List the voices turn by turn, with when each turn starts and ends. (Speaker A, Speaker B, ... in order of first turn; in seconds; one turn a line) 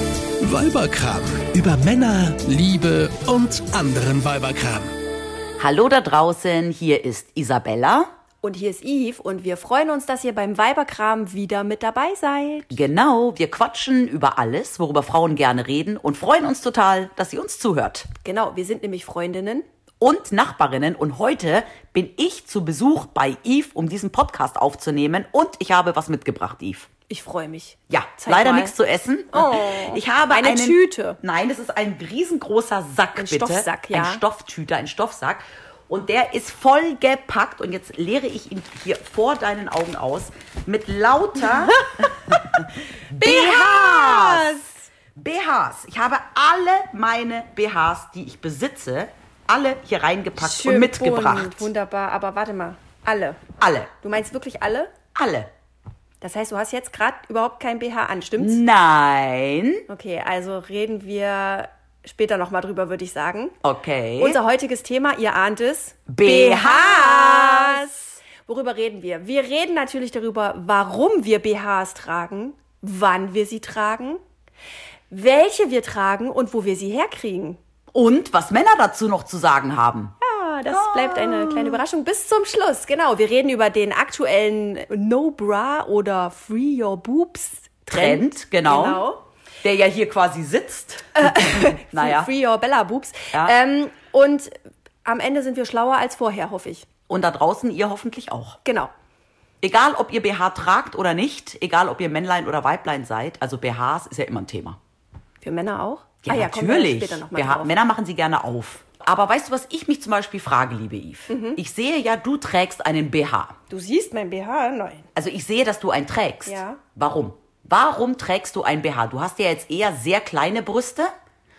Speaker A: 0.4-4.9
Speaker B: 5.6-8.1
Speaker C: 8.4-12.7
Speaker B: 12.7-18.1
Speaker C: 18.2-19.7
Speaker B: 20.0-26.9
Speaker C: 27.1-28.7
Speaker B: 27.9-44.5
Speaker C: 29.3-31.2
Speaker C: 33.2-34.2
Speaker C: 41.6-42.1
Speaker C: 43.2-44.8
Speaker B: 45.1-51.7
Speaker C: 50.4-53.4
Speaker B: 53.6-53.9
Speaker C: 54.0-54.9
Speaker B: 55.1-55.5
Speaker C: 56.2-58.6
Speaker B: 58.4-59.9
Speaker C: 59.9-63.6
Speaker B: 63.6-64.4
Speaker C: 64.2-74.2
Speaker B: 66.1-67.9
Speaker C: 75.1-77.6
Speaker B: 77.9-80.2
Speaker C: 80.2-89.2
Speaker B: 80.7-81.8
Speaker B: 87.9-89.0
Speaker B: 89.6-92.3
Speaker C: 91.2-94.5
Speaker C: 95.0-96.9
Speaker B: 97.1-98.6
Speaker C: 98.7-98.9
Speaker B: 99.6-104.8
Speaker C: 105.4-107.7
Speaker B: 106.2-113.5
Speaker C: 111.3-111.6
Speaker C: 113.7-115.1
Speaker B: 115.2-121.1
Speaker C: 116.5-116.8